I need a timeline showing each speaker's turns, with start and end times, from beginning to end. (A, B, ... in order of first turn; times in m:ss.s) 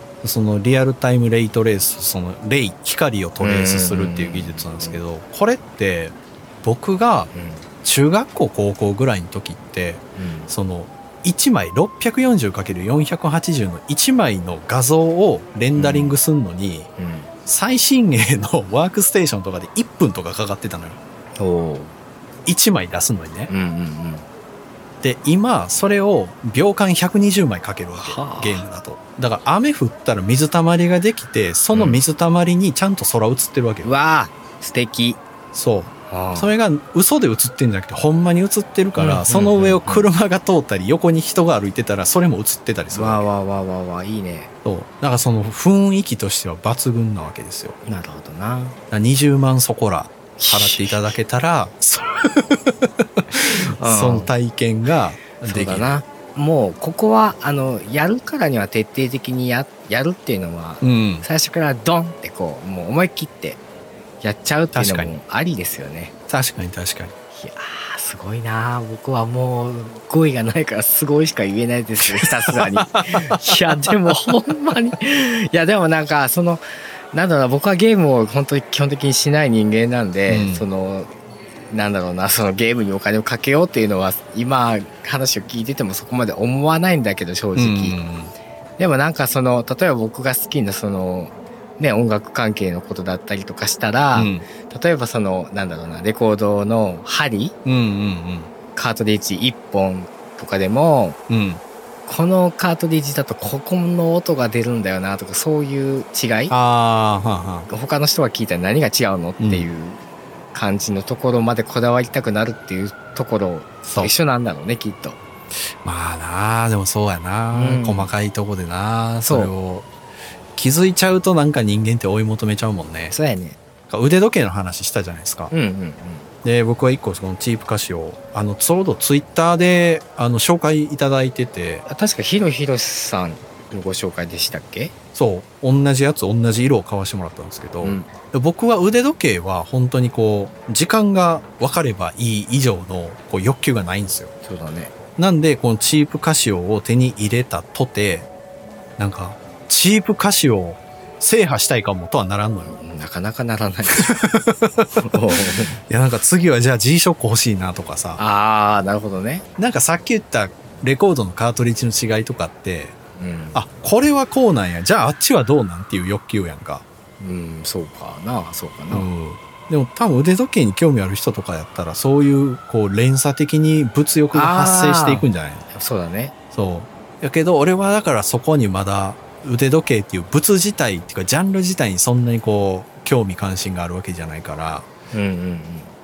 0:00.2-0:07.3 A
0:03.4-0:05.0 B
0:07.3-0:07.6 B
0:07.8-0:16.9 A
0:10.2-0:10.5 B
0:15.7-0:16.2 B
0:17.0-0:17.3 B
0:17.4-0:21.0 A
0:21.4-0:21.9 B
0:22.4-0:23.5 A
0:23.5-0:24.3 B
0:25.0-0:33.9 A
0:27.9-0:28.7 B
0:31.7-0:32.0 B
0:33.8-0:35.2 B
0:35.5-0:43.2 A
0:36.1-0:36.5 B
0:39.0-0:40.1 B
0:42.9-0:44.5 B
0:44.6-0:47.8 A
0:47.8-0:48.8 B
0:48.9-0:55.9 A
0:50.4-0:51.2 B
0:53.5-0:54.3 B
0:55.4-1:03.6 B
1:00.8-1:01.2 A
1:04.2-1:06.1 B
1:04.7-1:05.1 A
1:06.3-1:07.1 A
1:07.3-1:21.1 B
1:12.0-1:13.9 A
1:20.3-1:20.6 A
1:21.7-1:28.0 B
1:27.5-1:28.3 A
1:28.8-1:37.6 B
1:34.1-1:34.5 A
1:37.6-1:38.5 A
1:38.7-1:41.2 B
1:41.3-1:41.6 A
1:42.0-1:46.5 B
1:46.5-1:47.7 A
1:47.7-1:50.0 B
1:49.4-1:49.7 A
1:50.5-1:55.2 B
1:53.9-1:54.1 A
1:55.8-1:59.9 A
1:57.5-1:58.1 B
1:59.2-1:59.5 B
2:00.6-2:03.1 A
2:03.1-2:03.6 B
2:03.9-2:05.5 A
2:05.5-2:06.3 B
2:06.4-2:11.8 A
2:11.8-2:14.9 B
2:15.1-2:24.3 A
2:17.8-2:18.1 B
2:24.4-2:24.9 B
2:25.2-2:28.3 A
2:29.0-2:32.8 A
2:32.7-2:34.3 B
2:33.9-2:38.2 A
2:35.0-2:35.8 B
2:38.2-2:39.4 B
2:39.6-2:42.9 A
2:43.2-2:43.6 B
2:43.5-2:46.8 A
2:47.2-2:49.1 B
2:48.9-2:55.6 A
2:54.3-2:56.3 B
2:56.5-3:04.9 A
3:05.1-3:05.9 B